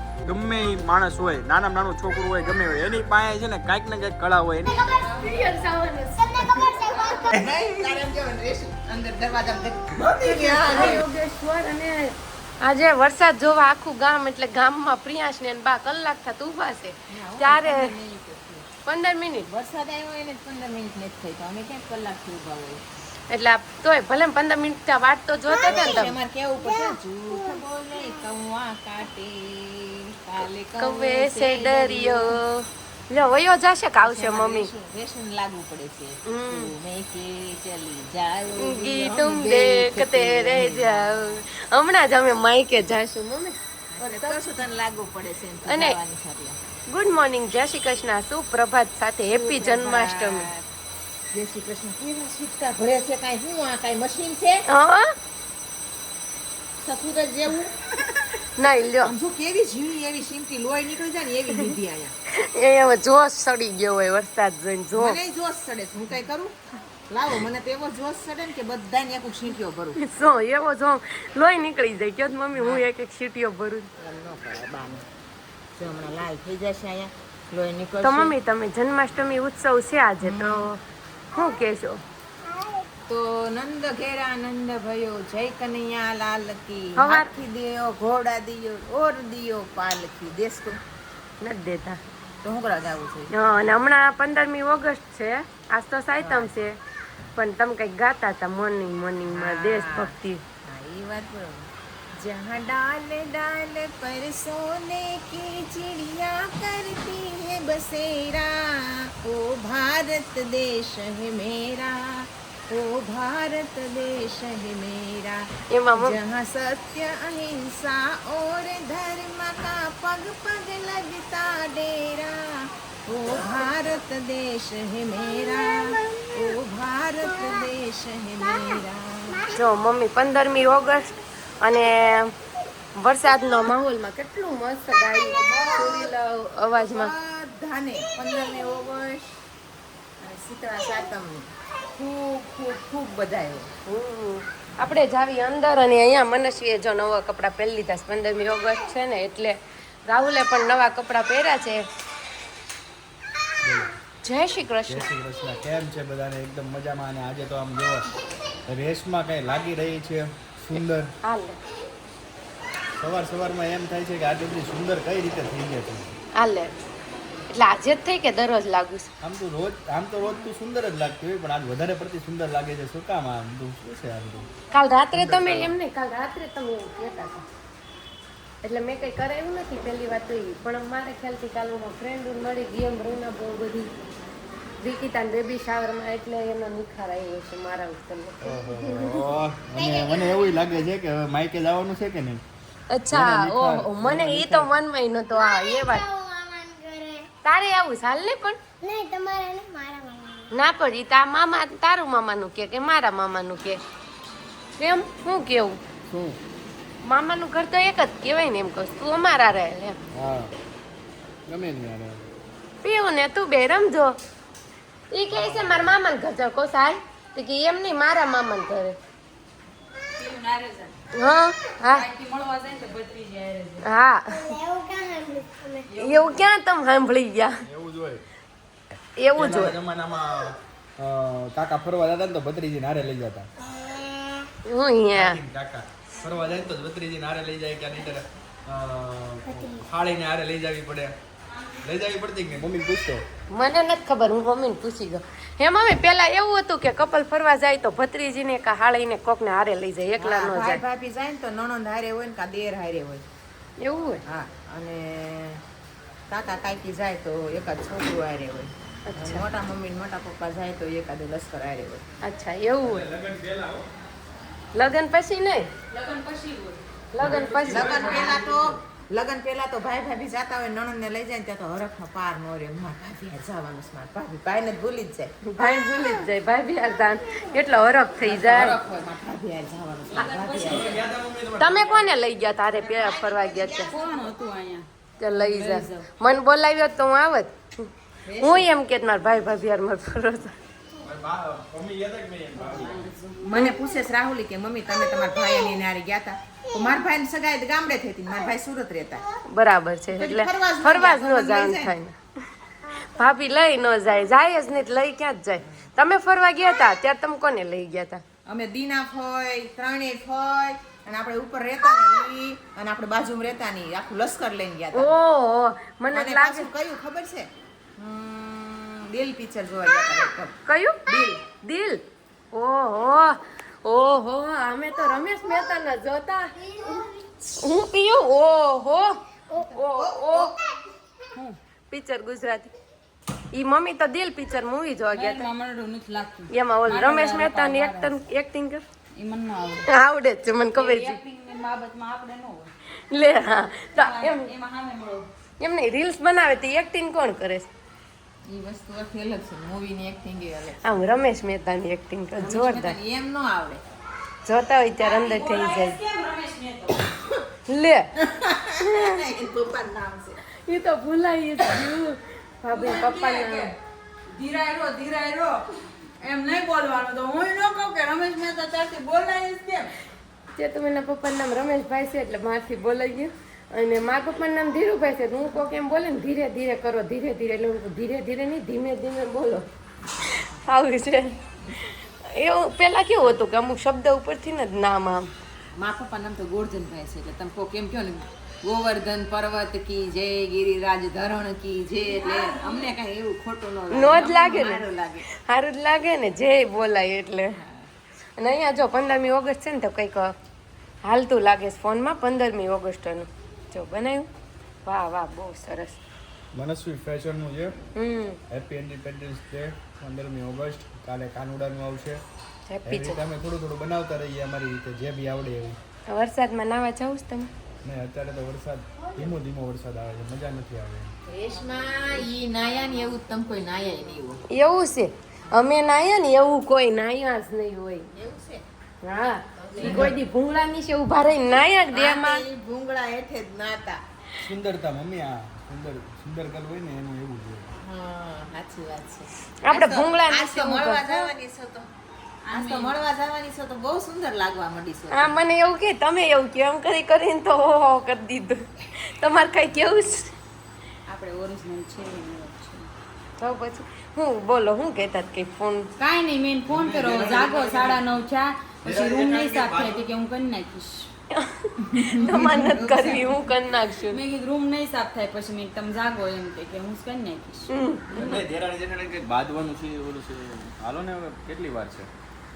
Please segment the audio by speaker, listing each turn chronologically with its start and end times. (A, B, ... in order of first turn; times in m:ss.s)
0:00.2-0:04.9 A
0:04.7-0:05.5 B
0:05.2-0:06.4 C
0:06.2-0:07.6 B
0:07.3-0:11.1 D
0:10.2-0:18.0 C
0:17.1-0:18.7 D
0:18.8-0:19.5 C
0:19.5-0:22.8 D
0:23.3-0:26.2 C
0:25.5-0:26.0 B
0:25.7-0:32.4 D
0:26.6-0:27.6 B
0:30.8-0:34.7 C
0:34.0-0:41.4 D
0:36.3-0:36.7 C
0:38.6-0:44.5 C
0:43.9-0:46.6 D
0:45.7-0:46.0 C
0:46.9-0:50.5 C
0:49.3-0:50.6 D
0:51.3-0:54.6 D
0:54.7-0:55.1 C
0:56.8-0:58.3 D
0:58.6-0:59.1 C
0:59.0-1:02.1 D
1:02.3-1:05.2 C
1:05.0-1:06.6 D
1:07.1-1:10.0 D
1:10.0-1:13.9 C
1:12.6-1:12.9 D
1:14.0-1:15.1 D
1:15.8-1:18.4 D
1:18.0-1:20.8 C
1:20.2-1:20.7 D
1:21.4-1:22.0 C
1:22.4-1:22.9 B
1:23.1-1:30.8 D
1:27.0-1:27.3 C
1:31.4-1:32.0 C
1:32.4-1:33.3 D
1:33.3-1:36.8 C
1:36.2-1:36.5 D
1:37.4-1:40.4 C
1:39.3-1:40.1 D
1:40.7-1:41.7 D
1:42.2-2:09.4 D
1:55.7-1:56.2 C
2:05.3-2:06.5 B
2:07.4-2:07.7 B
2:08.4-2:09.6 B
2:09.5-2:11.1 C
2:11.6-2:12.3 C
2:13.0-2:17.1 C
2:15.3-2:16.1 D
2:16.7-2:19.4 D
2:20.2-2:23.7 D
2:23.9-2:31.8 C
2:33.6-2:33.9 A
2:34.2-2:35.1 C
2:34.9-2:38.1 A
2:38.7-2:41.1 A
2:41.2-2:41.6 C
2:43.0-2:46.2 A
2:46.4-2:46.7 C
2:47.5-2:49.1 C
2:49.2-2:54.5 A
2:54.7-2:57.4 C
2:55.1-2:55.8 A
2:58.6-3:03.9 C
3:04.8-3:09.2 C
3:08.4-3:12.4 A
3:09.8-3:10.8 B
3:12.9-3:16.0 C
3:13.1-3:14.7 A
3:15.3-3:17.3 B
3:17.4-3:18.6 C
3:18.8-3:20.5 B
3:20.5-3:23.8 C
3:24.8-3:25.8 C
3:26.1-3:26.4 A
3:27.1-3:30.0 C
3:30.1-3:30.5 A
3:31.5-3:32.3 A
3:32.8-3:34.2 C
3:35.1-3:39.0 C
3:35.3-3:35.9 A
3:40.2-3:41.0 E
3:41.2-3:42.1 C
3:41.8-3:43.9 E
3:43.8-3:44.6 C
3:44.3-3:45.9 B
3:45.9-3:46.4 E
3:46.0-3:47.6 C
3:47.6-3:48.2 A
3:49.2-3:49.8 C
3:49.4-3:53.5 A
3:53.6-3:54.5 B
3:54.7-3:55.4 C
3:55.1-4:01.1 A
4:01.8-4:03.2 A
4:03.5-4:10.8 C
4:10.2-4:13.2 D
4:13.8-4:14.2 C
4:14.3-4:15.6 D
4:16.3-4:22.0 D
4:19.1-4:19.5 C
4:22.2-4:23.1 C
4:22.8-4:23.8 A
4:24.7-4:25.7 C
4:25.9-4:26.8 E
4:27.1-4:28.4 C
4:27.2-4:28.2 A
4:27.5-4:28.7 E
4:27.7-4:35.4 D
4:35.5-4:38.8 C
4:38.2-4:40.9 D
4:40.1-4:41.0 E
4:40.7-4:42.1 A
4:41.6-4:43.9 C
4:42.8-4:44.3 D
4:43.9-4:46.1 E
4:45.2-4:47.9 C
4:48.3-4:48.7 D
4:48.4-4:50.6 C
4:51.0-4:53.0 A
4:52.6-4:53.4 E
4:53.4-4:59.2 D
4:59.5-5:02.2 C
5:00.1-5:02.0 D
5:02.9-5:03.2 B
5:03.1-5:08.2 C
5:08.5-5:15.1 D
5:14.9-5:16.7 C
5:16.1-5:20.6 D
5:20.7-5:30.5 C
5:21.1-5:21.4 D
5:26.6-5:27.1 B
5:29.6-5:30.6 D
5:31.9-5:32.7 C
5:33.5-5:35.5 C
5:35.1-5:38.1 E
5:36.5-5:38.8 C
5:39.2-5:39.9 E
5:39.8-5:41.2 C
5:40.8-5:42.7 E
5:43.1-5:44.5 C
5:44.0-5:45.3 E
5:45.6-5:47.7 C
5:48.5-5:51.0 D
5:50.8-5:53.0 C
5:52.4-5:53.8 D
5:54.4-5:56.0 C
5:55.0-5:57.1 E
5:57.7-5:58.1 C
5:58.2-6:00.4 D
5:58.8-5:59.2 C
6:00.7-6:03.7 C
6:02.7-6:03.8 E
6:04.3-6:05.7 E
6:06.2-6:10.0 E
6:10.6-6:19.7 C
6:20.2-6:25.3 C
6:25.8-6:35.2 D
6:32.1-6:33.0 E
6:33.9-6:37.6 C
6:37.5-6:37.9 D
6:38.4-6:40.3 C
6:41.0-6:44.3 C
6:44.8-6:46.0 C
6:46.6-6:47.8 A
6:48.0-6:48.4 C
6:48.5-6:52.2 A
6:52.7-6:53.2 C
6:52.8-6:55.8 A
6:56.1-6:57.5 C
6:57.8-7:01.1 A
7:01.3-7:04.4 D
7:04.5-7:08.1 C
7:08.1-7:08.6 D
7:09.0-7:12.4 C
7:09.6-7:10.2 D
7:09.8-7:10.1 A
7:11.9-7:14.0 D
7:14.4-7:17.7 A
7:17.8-7:21.9 D
7:19.6-7:21.3 C
7:22.5-7:23.0 E
7:22.5-7:25.4 D
7:25.1-7:30.4 C
7:31.1-7:32.9 E
7:33.4-7:35.9 C
7:36.0-7:41.1 E
7:36.7-7:38.0 A
7:38.8-7:40.1 A
7:41.3-7:44.2 C
7:41.8-7:43.5 E
7:44.0-7:47.7 E
7:47.7-7:48.3 C
7:48.1-7:52.1 A